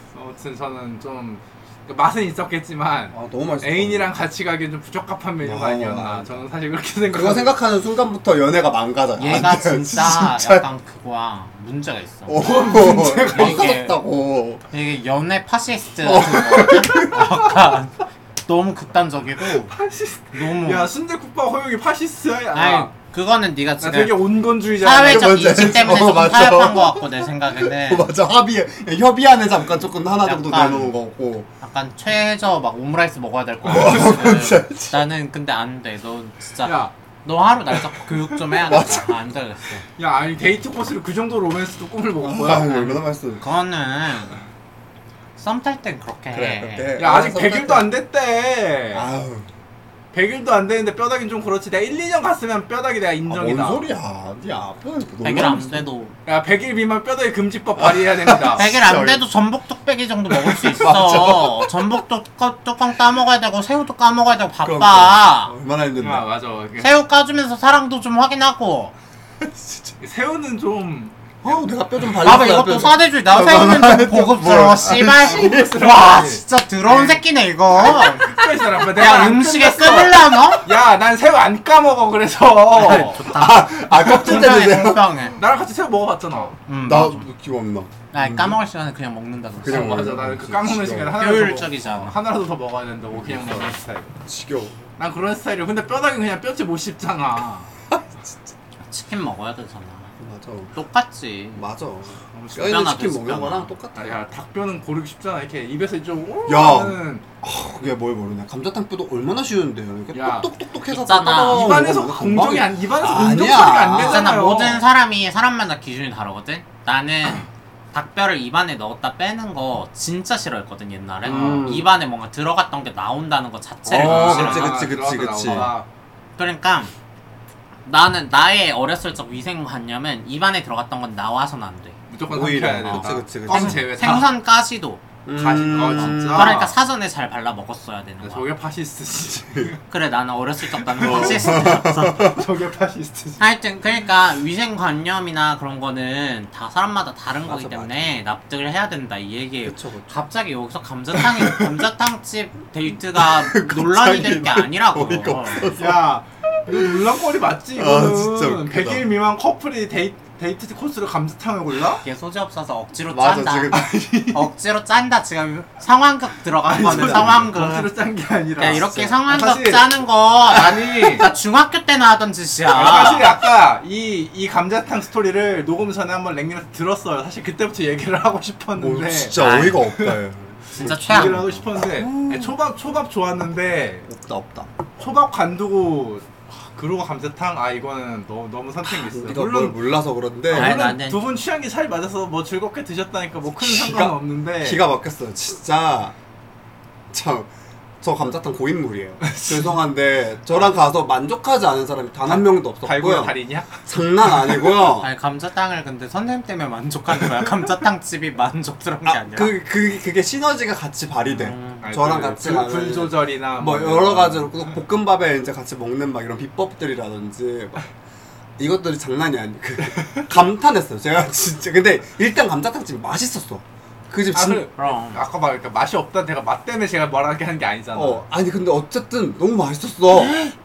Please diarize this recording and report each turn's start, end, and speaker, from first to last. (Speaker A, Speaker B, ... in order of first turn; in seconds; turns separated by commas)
Speaker A: 0.1-7.6, Speaker B: 3.1-4.1, Speaker B: 5.4-6.5, Speaker B: 7.1-10.7, Speaker C: 9.2-14.0, Speaker B: 12.3-14.6, Speaker A: 12.3-13.7, Speaker C: 14.7-19.8, Speaker B: 16.0-17.3, Speaker A: 19.7-22.9, Speaker C: 20.3-20.9, Speaker C: 22.5-28.1, Speaker A: 23.8-26.0, Speaker B: 25.0-31.5, Speaker C: 30.2-31.0, Speaker C: 31.6-39.8, Speaker B: 33.6-35.0, Speaker A: 36.6-36.9, Speaker B: 38.6-39.2, Speaker A: 40.0-43.0, Speaker B: 42.2-43.4, Speaker C: 43.4-44.4, Speaker C: 45.4-47.0, Speaker B: 46.3-48.0, Speaker A: 47.0-49.1, Speaker B: 48.9-49.5, Speaker A: 50.1-53.9, Speaker B: 53.3-55.9, Speaker C: 55.2-56.1, Speaker A: 56.3-58.7, Speaker B: 57.8-59.2, Speaker C: 58.5-65.5, Speaker B: 60.3-61.9, Speaker B: 64.6-66.3, Speaker A: 66.0-67.0, Speaker C: 66.8-68.9, Speaker B: 69.4-70.0, Speaker A: 70.0-71.2, Speaker B: 71.4-75.7, Speaker C: 72.2-80.7, Speaker A: 74.9-77.2, Speaker A: 77.7-83.3, Speaker C: 82.7-85.4, Speaker B: 83.2-85.3, Speaker A: 85.4-86.6, Speaker C: 86.7-87.3, Speaker B: 86.8-88.6, Speaker C: 88.1-90.2, Speaker B: 89.6-91.2, Speaker A: 89.7-94.1, Speaker C: 91.2-92.2, Speaker B: 93.1-93.7, Speaker B: 94.3-94.8, Speaker A: 95.0-97.7, Speaker B: 97.9-98.5, Speaker C: 98.9-100.1, Speaker B: 100.2-100.7, Speaker C: 100.7-101.6, Speaker B: 101.5-104.2, Speaker A: 102.3-102.8, Speaker C: 102.5-103.7, Speaker A: 104.0-107.2, Speaker B: 106.5-114.3, Speaker A: 110.1-110.5, Speaker C: 110.9-111.9, Speaker A: 111.4-114.8, Speaker C: 114.0-124.9, Speaker B: 121.2-121.9, Speaker B: 123.9-125.7, Speaker A: 123.9-125.9, Speaker C: 126.4-126.9, Speaker C: 127.9-132.0, Speaker A: 132.1-134.3, Speaker B: 132.3-133.8, Speaker C: 132.8-135.0, Speaker B: 135.2-136.7, Speaker A: 135.3-136.7, Speaker C: 135.9-138.5, Speaker A: 138.2-139.8, Speaker C: 139.9-142.4, Speaker A: 140.9-143.4, Speaker B: 141.0-142.4, Speaker C: 143.4-155.8, Speaker B: 147.4-148.2, Speaker B: 149.7-150.1, Speaker B: 153.1-156.1, Speaker A: 155.8-162.0, Speaker B: 156.7-157.0, Speaker B: 157.7-159.1, Speaker C: 162.0-167.9, Speaker B: 163.1-164.4, Speaker A: 166.7-171.3, Speaker B: 166.8-167.5, Speaker C: 168.6-173.3, Speaker B: 168.6-169.2, Speaker A: 172.7-180.2, Speaker B: 178.8-182.5, Speaker C: 179.4-179.8, Speaker C: 180.7-181.6, Speaker A: 180.8-184.1, Speaker B: 184.1-184.7, Speaker A: 185.0-189.8, Speaker B: 188.9-190.8, Speaker A: 190.5-194.8, Speaker C: 190.5-191.2, Speaker B: 193.6-196.2, Speaker B: 197.1-197.5, Speaker B: 198.0-205.1, Speaker A: 199.2-199.8, Speaker A: 202.2-204.7, Speaker C: 204.9-209.5, Speaker B: 209.1-217.8, Speaker C: 211.2-211.9, Speaker A: 211.8-214.6, Speaker B: 218.6-224.7, Speaker A: 220.0-220.2, Speaker A: 224.3-228.2, Speaker C: 224.8-225.2, Speaker B: 227.9-230.4